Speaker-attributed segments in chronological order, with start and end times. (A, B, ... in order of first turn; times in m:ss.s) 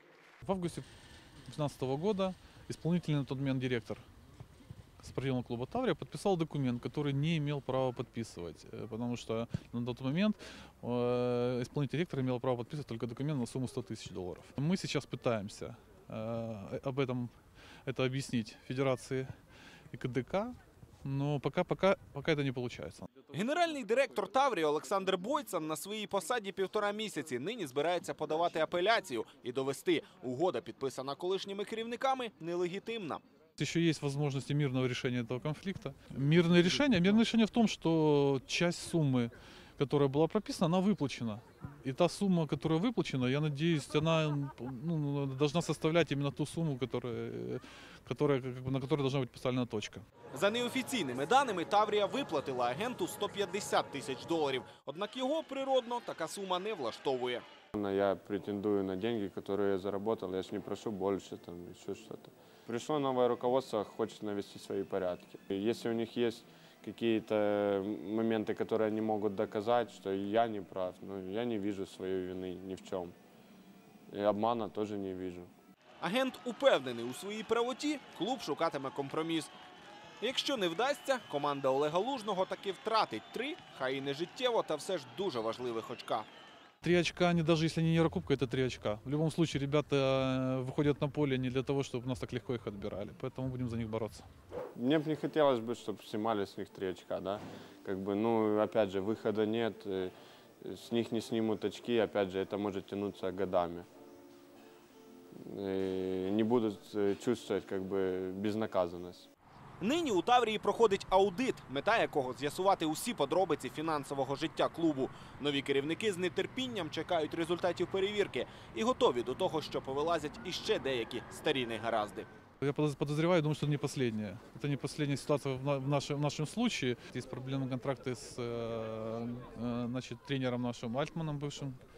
0:00.4-0:00.9 A
0:01.5-0:04.0 A
0:05.0-0:17.3 A
0:17.8-0:19.3 A
0:19.9-0:23.1 A
0:23.3-0:33.2 B
0:33.6-0:50.1 A
0:50.3-0:57.4 B
0:57.8-1:13.2 C
1:14.1-1:15.5 C
1:16.0-1:19.5 B
1:20.2-1:26.3 B
1:26.8-1:34.3 A
1:34.8-1:43.9 C
1:45.4-1:49.3 C
1:49.8-2:02.3 B
2:02.6-2:11.8 A